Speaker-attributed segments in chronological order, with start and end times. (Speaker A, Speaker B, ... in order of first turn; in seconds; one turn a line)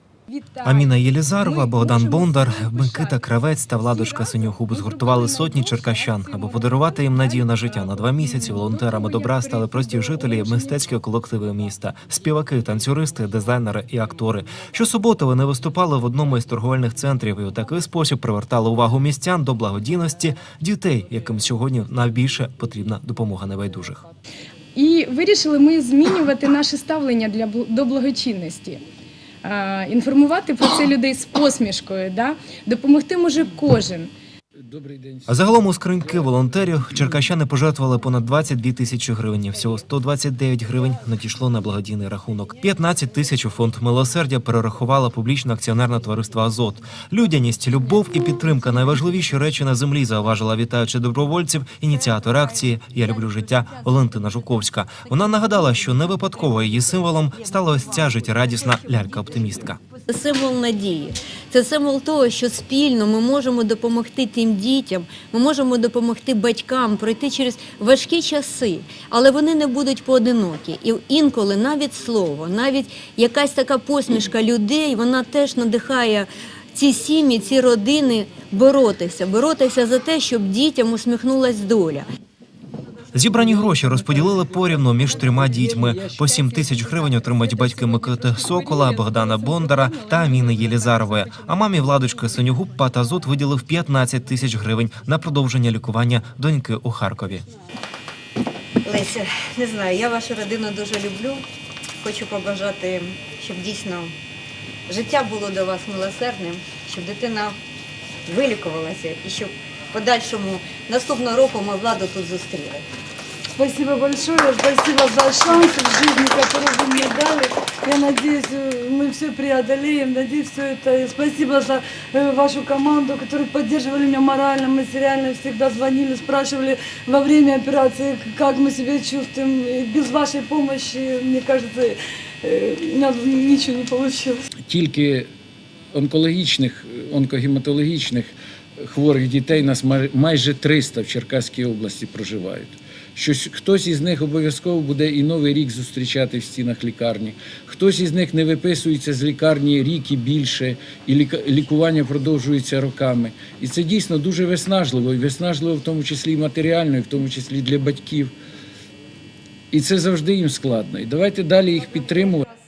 Speaker A: 0.3-0.9
Speaker B: 0.6-24.0
Speaker A: 1.4-3.2
Speaker A: 3.9-7.5
Speaker A: 8.0-10.9
Speaker A: 24.8-28.8
Speaker A: 29.4-34.1
Speaker C: 34.7-36.3
Speaker B: 35.3-59.8
Speaker C: 36.9-37.2
Speaker D: 60.0-82.1
Speaker B: 83.1-97.5
Speaker C: 83.3-86.2
Speaker A: 86.3-91.7
Speaker D: 98.8-101.4
Speaker D: 102.0-104.1
Speaker D: 104.9-107.6
Speaker D: 108.3-112.9
Speaker E: 113.5-134.4
Speaker C: 134.6-135.3
Speaker C: 135.9-158.3
Speaker C: 159.7-162.4